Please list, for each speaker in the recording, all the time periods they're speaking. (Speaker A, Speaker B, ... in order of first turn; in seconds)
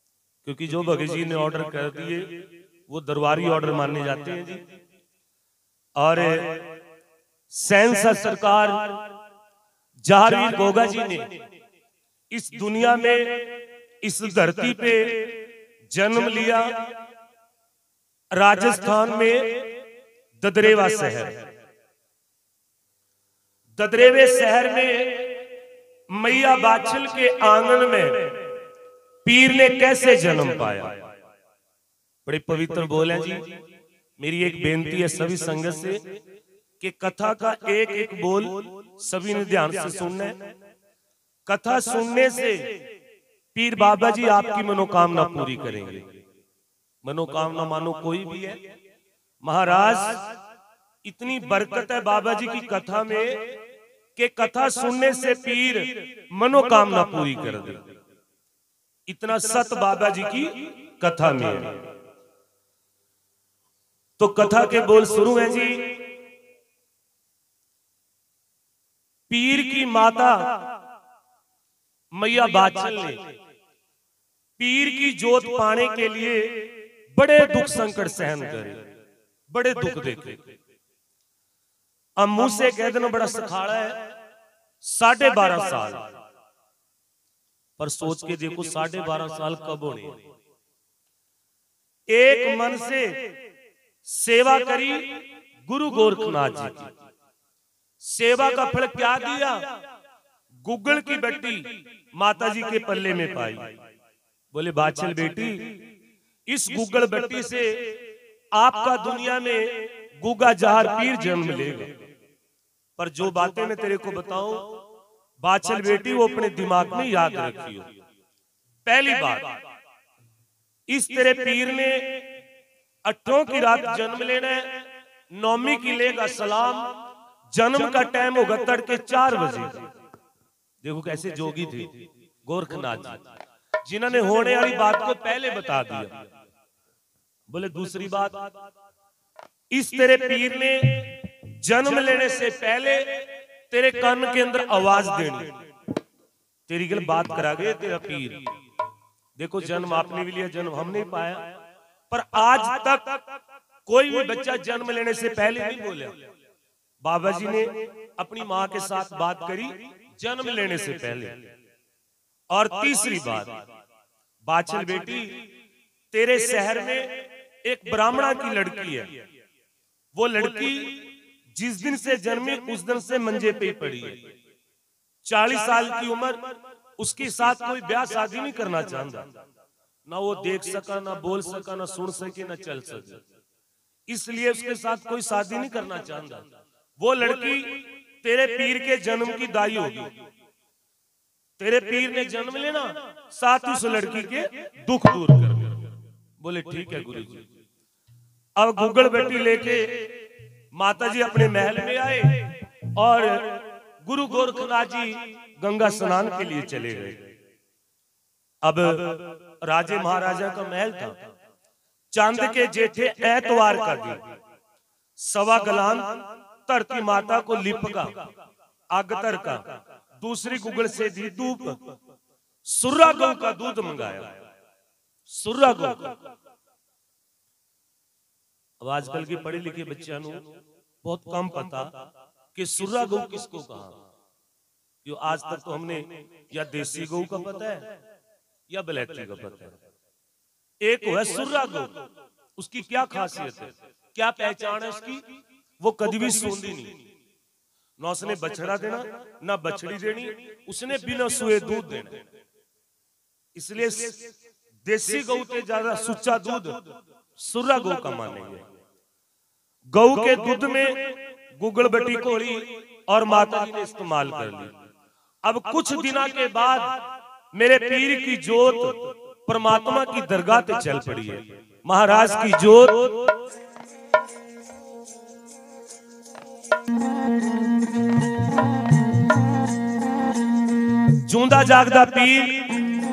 Speaker A: 0.4-4.7, 6.0-6.7, 7.5-9.0, 10.0-11.3, 12.3-16.9, 18.3-19.7, 20.4-21.4, 23.8-25.4, 26.1-28.5, 29.2-31.0, 32.2-33.6, 34.2-36.2, 36.8-40.4, 41.5-42.8, 43.5-46.2, 47.0-48.7, 49.4-50.3, 51.0-53.5, 54.2-57.9, 59.1-61.9, 64.2-66.0, 69.3-70.8, 72.1-73.3, 74.6-78.8, 79.5-80.5, 82.2-84.1, 84.8-86.1, 87.8-90.2, 92.1-93.3, 94.0-97.0, 98.0-99.8, 100.6-103.7, 104.5-105.8, 106.5-108.0, 108.5-112.0, 113.0-114.8, 115.4-117.9, 118.8-119.6, 120.9-122.3, 123.0-127.0, 127.5-129.9, 130.8-133.2, 133.8-136.2, 137.5-138.5, 139.7-145.6, 146.7-148.5, 149.4-151.6, 152.1-153.2, 153.9-156.2, 157.0-161.4, 162.5-163.6, 164.4-165.4, 166.1-169.2, 170.1-174.3, 175.2-179.3, 180.1-183.2, 184.1-186.5, 187.0-190.2, 191.6-195.9, 196.4-197.5, 198.6-200.2, 200.7-207.3, 208.6-211.2, 212.1-214.3, 215.2-218.3, 218.9-221.9, 222.7-224.4, 225.3-226.2, 228.8-230.5, 231.0-232.0, 232.6-234.0, 235.0-237.9, 238.7-239.8, 240.8-242.1, 242.6-245.2, 245.8-247.0, 248.0-252.2, 253.6-254.3, 254.8-256.8, 257.4-258.6, 259.9-264.8, 265.4-273.4, 281.2-282.8